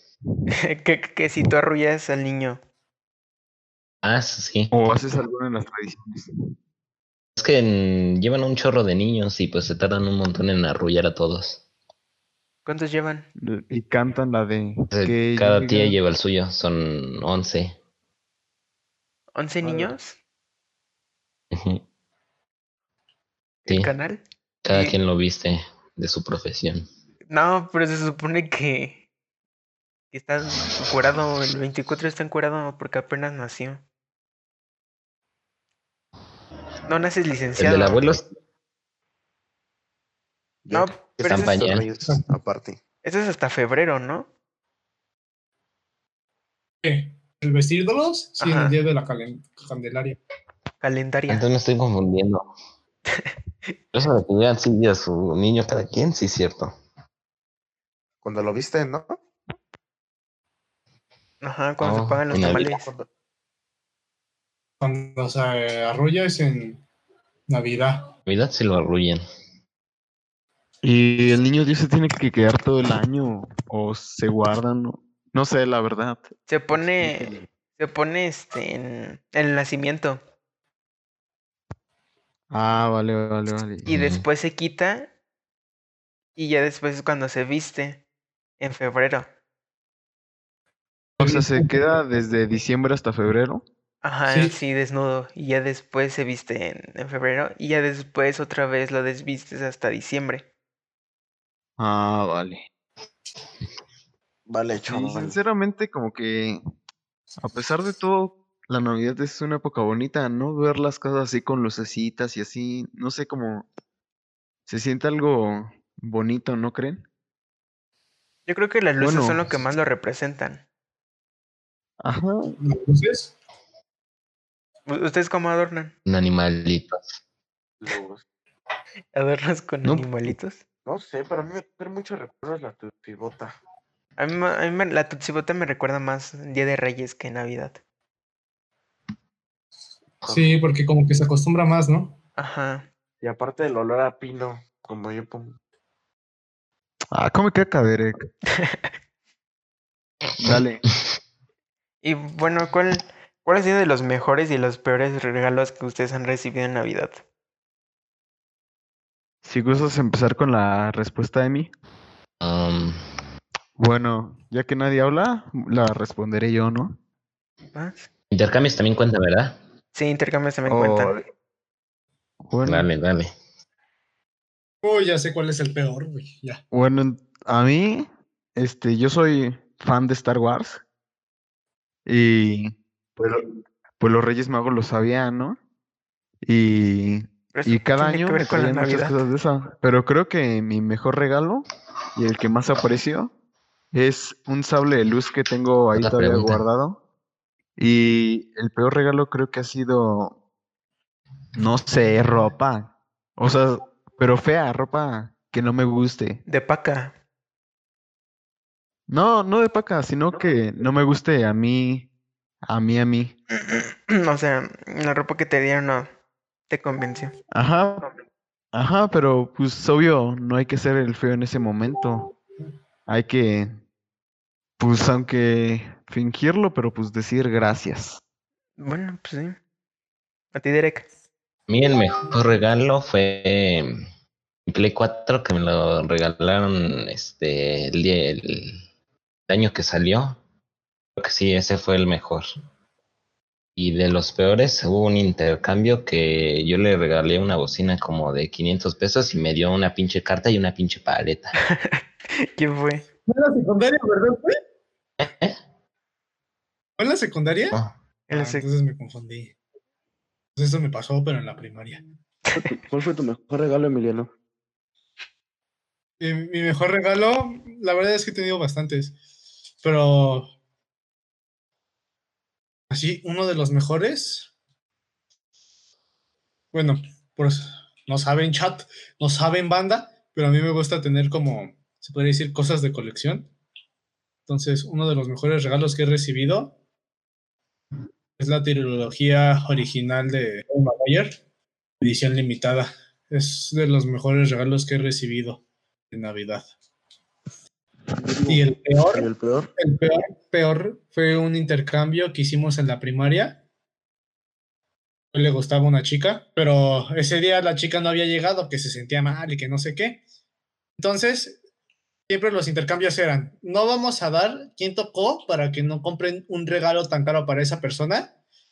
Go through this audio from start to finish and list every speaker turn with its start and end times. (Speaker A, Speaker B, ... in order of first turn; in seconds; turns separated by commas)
Speaker A: 0.5-2.6, Speaker B: 4.0-4.7, Speaker C: 4.7-6.3, Speaker B: 7.4-11.6, Speaker A: 12.7-13.3, Speaker C: 13.4-16.0, Speaker B: 14.9-17.8, Speaker A: 19.4-20.2, Speaker B: 21.5-21.8, Speaker A: 23.6-25.0, Speaker B: 24.6-26.9, Speaker A: 27.3-29.0, Speaker A: 30.1-33.8, Speaker A: 36.9-38.1, Speaker B: 37.6-38.3, Speaker D: 40.7-42.8, Speaker A: 40.7-41.6, Speaker B: 41.2-41.9, Speaker A: 43.0-44.3, Speaker E: 46.8-50.2, Speaker A: 48.4-48.8, Speaker A: 50.8-51.5, Speaker B: 51.3-52.5, Speaker A: 53.1-53.7, Speaker B: 53.9-56.7, Speaker D: 58.2-59.2, Speaker A: 61.4-62.9, Speaker B: 61.8-62.6, Speaker D: 62.3-63.1, Speaker E: 64.8-66.8, Speaker E: 67.5-68.0, Speaker B: 68.3-69.2, Speaker C: 70.8-77.2, Speaker A: 76.5-80.2, Speaker C: 82.5-83.9, Speaker B: 83.9-84.2, Speaker A: 83.9-85.1, Speaker A: 86.4-88.0, Speaker A: 88.6-89.3, Speaker E: 91.2-91.8, Speaker C: 91.2-93.6, Speaker A: 94.0-100.5, Speaker E: 94.3-94.6, Speaker C: 101.8-102.6, Speaker D: 104.5-105.4, Speaker C: 104.9-106.6, Speaker C: 107.4-113.7, Speaker C: 114.7-117.0, Speaker A: 118.5-120.6, Speaker C: 119.0-119.5, Speaker C: 122.0-122.5, Speaker E: 122.6-123.3, Speaker A: 124.9-125.9, Speaker B: 126.1-127.2, Speaker D: 127.8-128.2, Speaker A: 129.1-130.6, Speaker D: 130.9-133.6, Speaker A: 134.2-137.8, Speaker D: 140.2-140.6, Speaker E: 140.3-142.1, Speaker A: 142.4-142.9, Speaker D: 143.2-145.6, Speaker C: 147.1-148.2, Speaker A: 148.5-148.9, Speaker C: 150.4-150.8, Speaker A: 152.0-157.2, Speaker C: 159.4-161.7, Speaker B: 162.4-163.0, Speaker C: 163.8-167.0, Speaker A: 167.7-168.1, Speaker B: 168.3-169.6, Speaker A: 169.9-171.2, Speaker C: 170.7-171.2, Speaker C: 172.5-172.9, Speaker B: 172.6-173.3, Speaker E: 174.8-176.6, Speaker C: 176.7-180.8, Speaker C: 182.1-183.4, Speaker C: 184.0-185.6, Speaker C: 186.4-191.7, Speaker A: 187.5-189.2, Speaker C: 192.2-193.3, Speaker C: 193.9-197.0, Speaker B: 196.0-196.6, Speaker C: 197.8-200.4, Speaker C: 201.6-206.4, Speaker A: 206.5-207.1, Speaker C: 209.1-212.1, Speaker C: 212.7-213.3, Speaker A: 213.5-216.1, Speaker A: 216.7-217.3, Speaker C: 217.5-218.1, Speaker C: 218.7-222.3, Speaker C: 223.1-223.7, Speaker C: 224.8-228.2, Speaker A: 228.8-229.6, Speaker A: 230.5-231.1, Speaker B: 231.7-234.0, Speaker B: 234.7-238.8, Speaker B: 239.5-240.4, Speaker B: 241.2-242.5, Speaker B: 243.8-251.6, Speaker A: 251.6-253.1, Speaker E: 253.3-254.6, Speaker B: 255.2-255.6, Speaker E: 257.0-257.8, Speaker A: 258.3-258.7, Speaker E: 258.3-259.5, Speaker E: 260.6-262.0, Speaker A: 262.5-262.8, Speaker D: 262.8-264.3, Speaker E: 266.2-269.1, Speaker E: 269.8-270.5, Speaker E: 272.9-274.5, Speaker E: 276.7-283.5, Speaker E: 284.5-286.8, Speaker E: 288.4-291.4, Speaker E: 292.0-296.7, Speaker D: 298.2-299.7, Speaker E: 298.5-303.6, Speaker E: 305.3-310.2, Speaker E: 311.0-311.6, Speaker E: 312.3-318.3